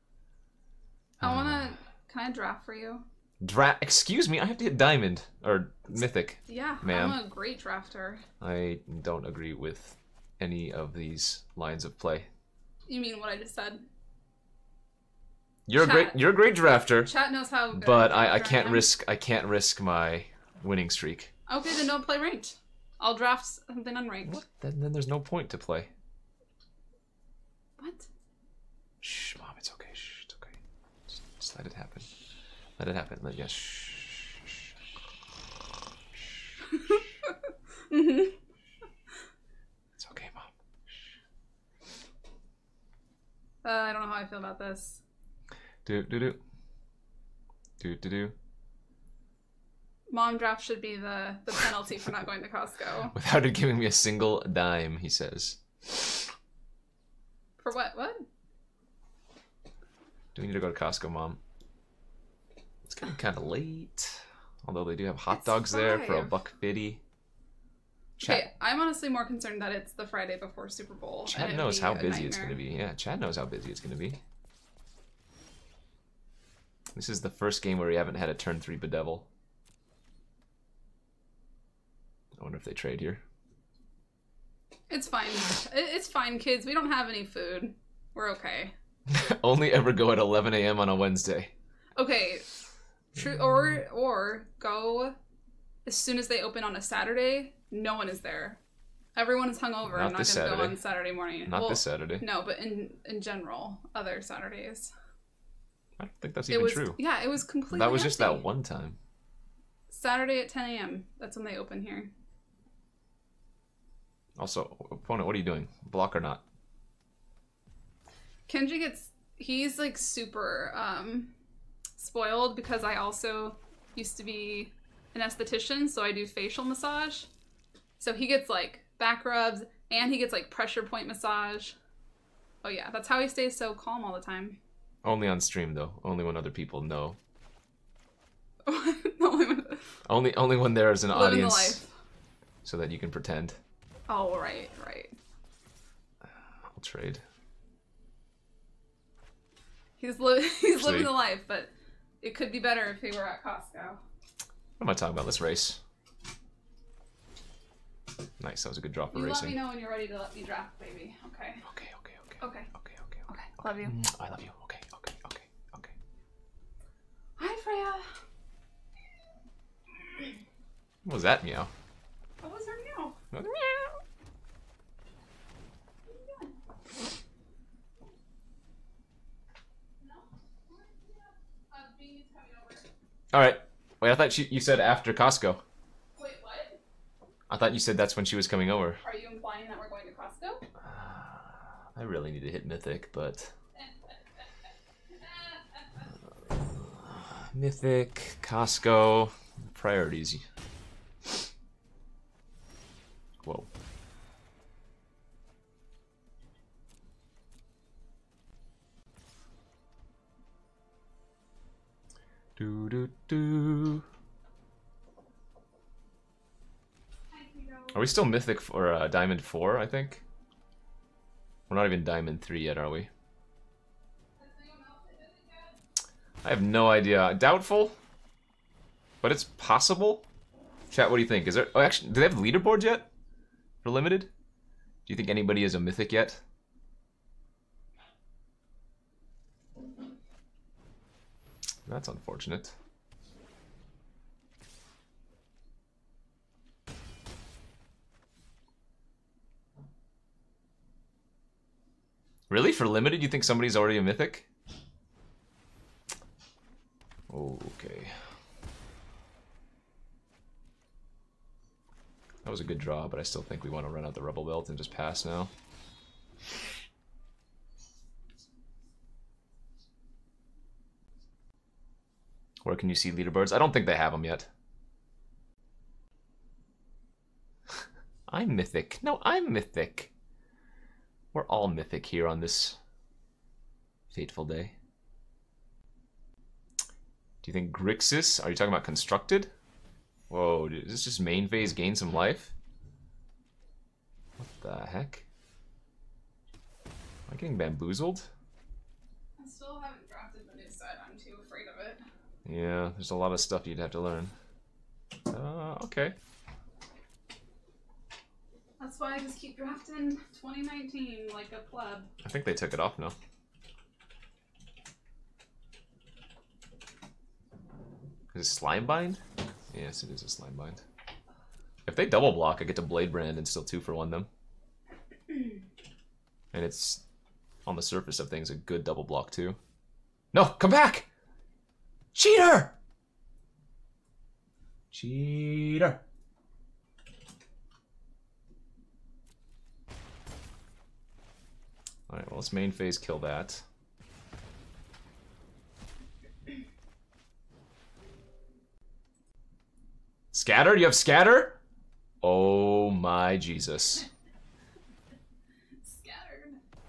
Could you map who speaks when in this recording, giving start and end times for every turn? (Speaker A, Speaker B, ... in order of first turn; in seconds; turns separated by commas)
Speaker A: 1.2-1.7, Speaker B: 1.2-3.0, Speaker A: 3.4-7.2, Speaker B: 6.5-8.2, Speaker A: 8.4-12.3, Speaker B: 12.9-13.8, Speaker A: 15.7-17.1, Speaker B: 15.8-16.2, Speaker B: 17.1-18.9, Speaker A: 17.7-21.3, Speaker B: 21.5-24.4, Speaker A: 24.2-25.9, Speaker B: 27.8-28.1, Speaker A: 29.0-32.1, Speaker A: 32.8-34.4, Speaker B: 36.7-37.4, Speaker B: 37.9-38.4, Speaker A: 40.0-40.5, Speaker B: 43.6-45.0, Speaker A: 45.9-46.4, Speaker A: 47.8-48.3, Speaker B: 50.1-53.1, Speaker A: 53.1-56.3, Speaker B: 57.6-58.2, Speaker A: 60.4-61.4, Speaker A: 62.9-67.0, Speaker B: 65.3-66.3, Speaker A: 68.2-68.5, Speaker B: 68.2-72.6, Speaker A: 71.3-74.2, Speaker A: 77.0-79.3, Speaker A: 82.4-83.2, Speaker B: 84.9-88.7, Speaker A: 89.1-91.5, Speaker B: 92.0-92.5, Speaker B: 93.2-95.2, Speaker B: 95.8-98.6, Speaker B: 99.2-104.9, Speaker A: 99.8-100.8, Speaker A: 101.5-102.2, Speaker A: 106.0-107.0, Speaker B: 106.5-108.5, Speaker A: 107.7-109.0, Speaker B: 109.9-112.1, Speaker A: 114.4-116.4, Speaker B: 118.5-121.3, Speaker B: 122.0-127.3, Speaker B: 128.0-131.8, Speaker B: 132.6-134.6, Speaker A: 135.0-137.2, Speaker B: 138.7-139.9, Speaker A: 140.1-141.8, Speaker B: 141.1-141.9, Speaker A: 142.6-143.6, Speaker B: 144.1-145.1, Speaker A: 146.7-147.2, Speaker B: 150.0-154.0, Speaker A: 150.8-151.1, Speaker A: 154.8-155.8, Speaker A: 158.4-159.6, Speaker B: 159.1-161.6, Speaker A: 161.7-163.2, Speaker B: 162.4-162.7, Speaker B: 163.3-163.9, Speaker A: 163.8-165.9, Speaker B: 167.4-168.1, Speaker A: 171.1-171.7, Speaker B: 172.4-173.2, Speaker A: 173.3-173.9, Speaker B: 176.1-176.5, Speaker B: 180.0-182.9, Speaker A: 183.3-185.6, Speaker B: 186.2-186.8, Speaker A: 187.5-189.0, Speaker B: 189.0-190.7, Speaker A: 190.8-193.5, Speaker B: 193.8-194.5, Speaker B: 195.1-196.1, Speaker A: 196.6-200.4, Speaker A: 203.4-203.7, Speaker A: 212.6-214.1, Speaker B: 217.3-218.0, Speaker A: 217.9-220.2, Speaker A: 221.7-223.1, Speaker B: 224.4-225.8, Speaker A: 226.4-227.9, Speaker A: 229.2-230.2, Speaker A: 230.9-233.1, Speaker A: 233.8-234.3, Speaker A: 235.1-236.4, Speaker A: 241.9-242.8, Speaker A: 252.5-254.5, Speaker A: 257.3-258.1, Speaker A: 262.4-265.5, Speaker A: 272.6-274.5, Speaker A: 278.3-280.1, Speaker A: 281.3-282.8, Speaker A: 284.1-284.8, Speaker A: 287.4-289.5, Speaker A: 290.3-292.5, Speaker A: 294.4-295.2, Speaker A: 297.3-298.3, Speaker B: 299.4-302.0, Speaker A: 302.4-304.3, Speaker A: 305.3-306.1, Speaker B: 308.8-312.1, Speaker A: 312.2-313.1, Speaker A: 318.3-319.2, Speaker A: 319.7-320.8, Speaker A: 321.9-324.3, Speaker A: 326.5-327.0, Speaker A: 327.7-329.6, Speaker A: 330.3-331.1, Speaker A: 332.1-332.8, Speaker A: 334.9-336.0, Speaker A: 342.1-343.6, Speaker A: 350.3-351.6, Speaker A: 352.2-354.0, Speaker B: 355.8-356.6